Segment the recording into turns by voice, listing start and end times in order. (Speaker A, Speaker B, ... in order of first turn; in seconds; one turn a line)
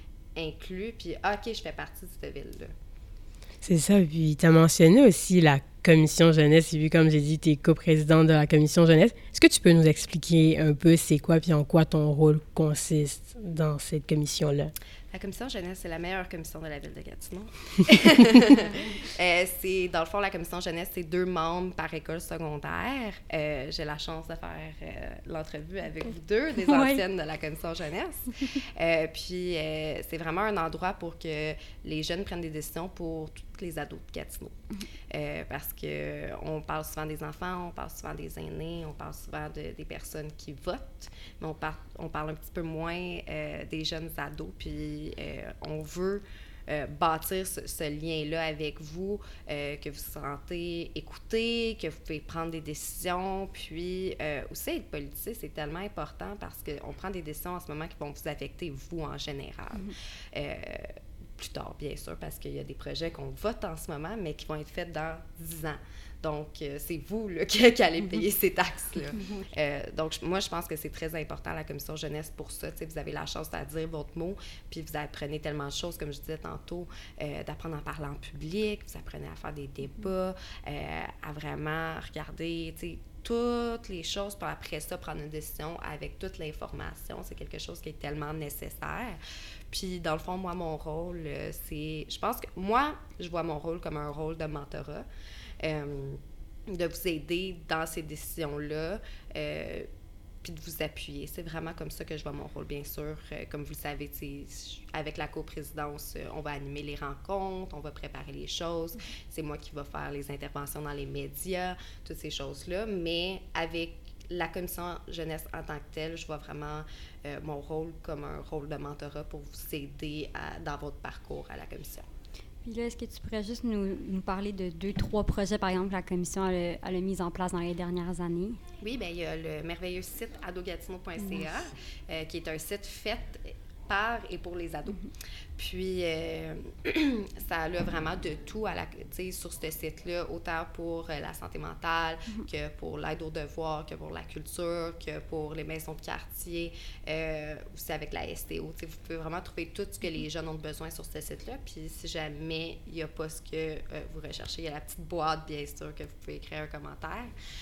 Speaker A: 0.3-2.7
Speaker B: 3.6-14.7
Speaker A: 15.1-34.5
Speaker C: 18.6-18.9
Speaker C: 26.6-27.0
Speaker A: 35.1-89.2
Speaker C: 69.1-69.5
Speaker A: 89.7-95.1
Speaker A: 95.6-99.9
Speaker A: 100.4-122.0
Speaker C: 122.6-128.6
Speaker A: 128.8-135.0
Speaker A: 135.6-157.3